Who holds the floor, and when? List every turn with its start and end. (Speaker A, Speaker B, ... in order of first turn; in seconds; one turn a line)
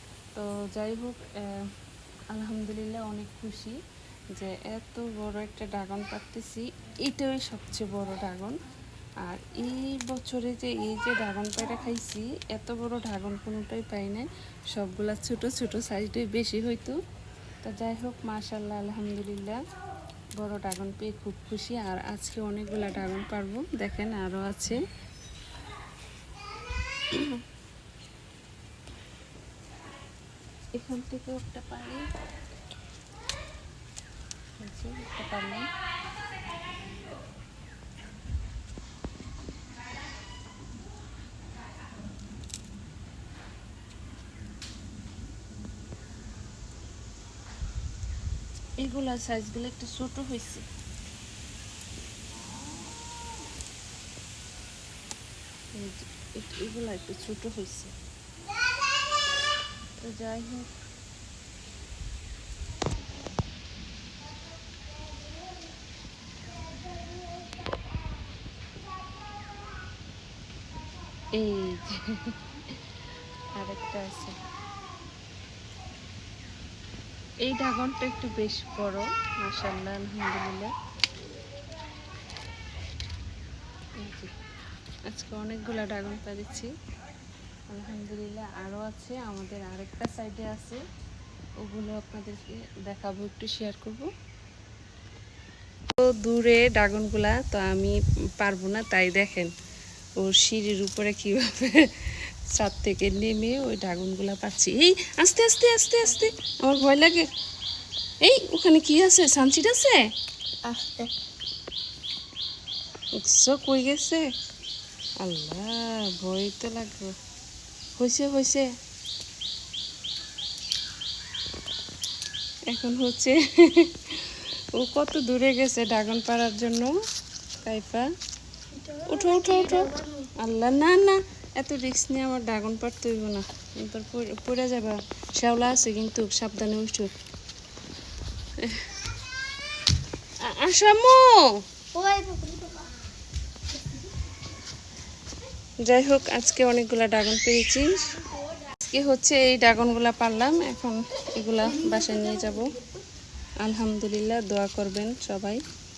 Speaker A: 0.3-1.7
Speaker A: 2.3-3.8
Speaker A: 4.3-8.6
Speaker A: 9.2-17.0
Speaker A: 17.6-19.6
Speaker A: 20.4-24.8
Speaker A: 27.1-27.4
Speaker A: 30.8-32.1
Speaker A: 34.6-35.7
Speaker A: 48.8-50.6
Speaker A: 55.8-57.9
Speaker A: 60.0-60.7
Speaker A: 71.3-72.4
Speaker A: 73.5-74.3
Speaker A: 77.4-80.7
Speaker A: 84.0-84.3
Speaker A: 85.1-86.7
Speaker A: 87.7-90.8
Speaker A: 91.6-94.1
Speaker A: 96.0-99.5
Speaker A: 100.2-107.3
Speaker A: 108.2-110.0
Speaker B: 110.6-111.1
Speaker A: 113.2-114.2
Speaker A: 115.2-117.1
Speaker A: 118.0-118.7
Speaker A: 122.7-126.9
Speaker A: 127.6-128.1
Speaker B: 128.8-130.3
Speaker A: 129.0-137.1
Speaker A: 138.6-138.8
Speaker A: 140.4-141.6
Speaker B: 141.9-143.0
Speaker A: 145.8-148.1
Speaker A: 148.7-152.8
Speaker B: 151.8-152.9
Speaker A: 153.6-155.6